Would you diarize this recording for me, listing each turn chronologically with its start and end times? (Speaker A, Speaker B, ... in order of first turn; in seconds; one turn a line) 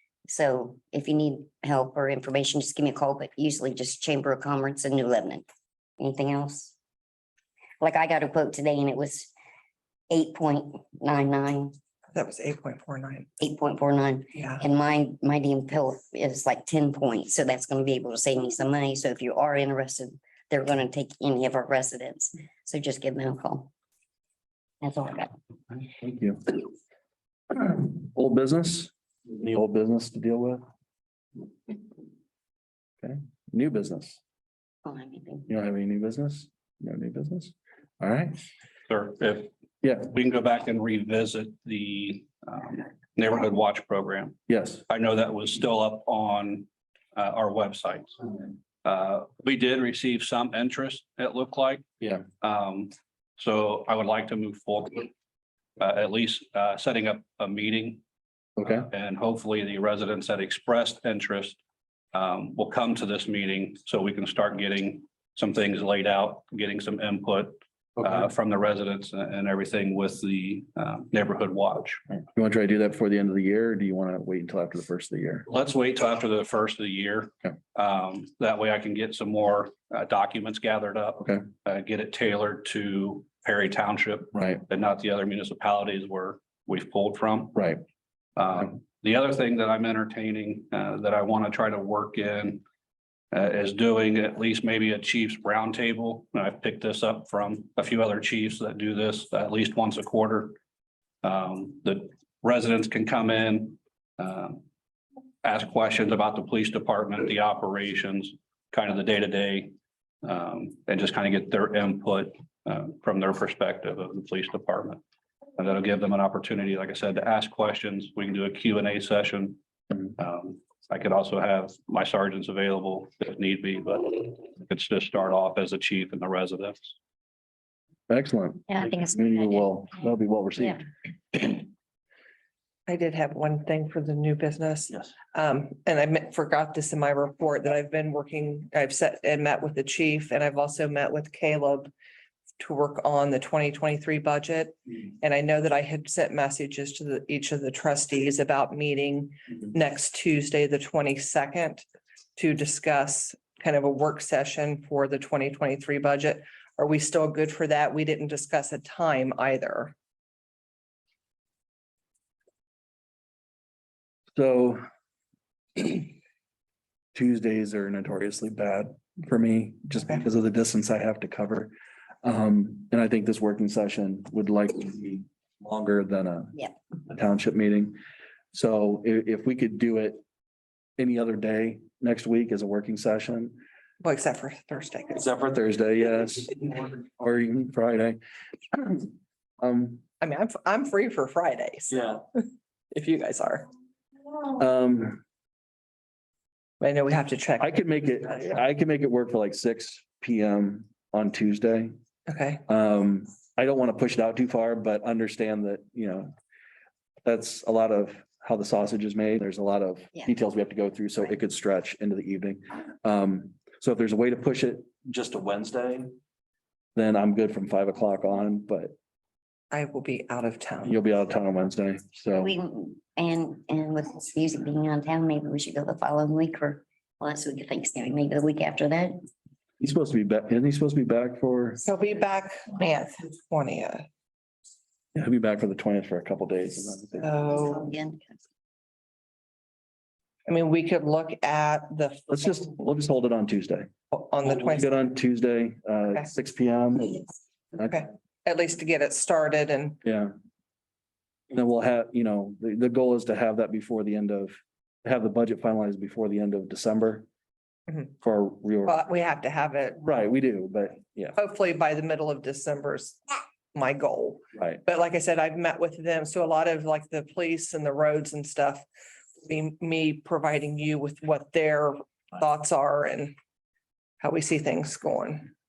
Speaker A: 0.2-5.5
Speaker A: 6.0-6.8
Speaker A: 7.8-9.3
Speaker A: 10.1-11.8
Speaker B: 12.1-13.3
Speaker A: 13.4-23.7
Speaker B: 14.4-14.6
Speaker A: 24.8-25.4
Speaker C: 26.0-26.7
Speaker C: 27.5-30.6
Speaker C: 33.0-34.2
Speaker A: 34.8-35.5
Speaker C: 35.5-38.4
Speaker D: 38.9-39.5
Speaker C: 39.8-40.1
Speaker D: 40.0-44.4
Speaker C: 44.5-44.8
Speaker D: 44.9-51.8
Speaker C: 52.0-52.3
Speaker D: 52.4-55.1
Speaker D: 55.8-58.0
Speaker C: 58.6-58.9
Speaker D: 58.7-61.6
Speaker D: 62.1-72.0
Speaker C: 72.3-75.5
Speaker D: 75.5-87.7
Speaker C: 84.3-84.6
Speaker C: 87.6-87.8
Speaker D: 88.3-92.6
Speaker D: 93.3-100.6
Speaker D: 101.2-104.6
Speaker D: 105.4-115.0
Speaker D: 115.6-119.6
Speaker D: 120.2-126.9
Speaker C: 128.1-131.6
Speaker B: 132.9-141.9
Speaker B: 142.6-159.9
Speaker C: 164.3-164.8
Speaker C: 165.8-166.1
Speaker C: 167.1-176.6
Speaker C: 177.1-178.0
Speaker C: 178.5-180.2
Speaker C: 181.0-183.6
Speaker B: 184.0-185.2
Speaker C: 185.1-188.2
Speaker C: 188.7-190.0
Speaker B: 190.2-193.7
Speaker C: 191.9-192.2
Speaker C: 194.5-195.2
Speaker B: 196.8-197.7
Speaker C: 197.6-201.9
Speaker B: 202.3-202.6
Speaker C: 202.7-206.3
Speaker C: 207.2-216.2
Speaker C: 216.9-218.9
Speaker B: 219.7-220.9
Speaker C: 220.8-222.5
Speaker A: 222.3-229.2
Speaker C: 229.8-231.8
Speaker B: 231.8-234.1
Speaker C: 235.1-237.3
Speaker B: 237.2-237.9
Speaker A: 237.6-238.2
Speaker B: 240.5-242.3
Speaker C: 242.3-243.9
Speaker B: 244.1-244.9
Speaker C: 244.4-247.2
Speaker B: 247.8-250.0
Speaker C: 250.0-250.3
Speaker C: 251.5-257.3
Speaker C: 258.2-259.0
Speaker B: 258.9-260.0
Speaker C: 260.0-261.4
Speaker B: 261.4-268.9
Speaker B: 269.4-273.3
Speaker B: 274.2-275.5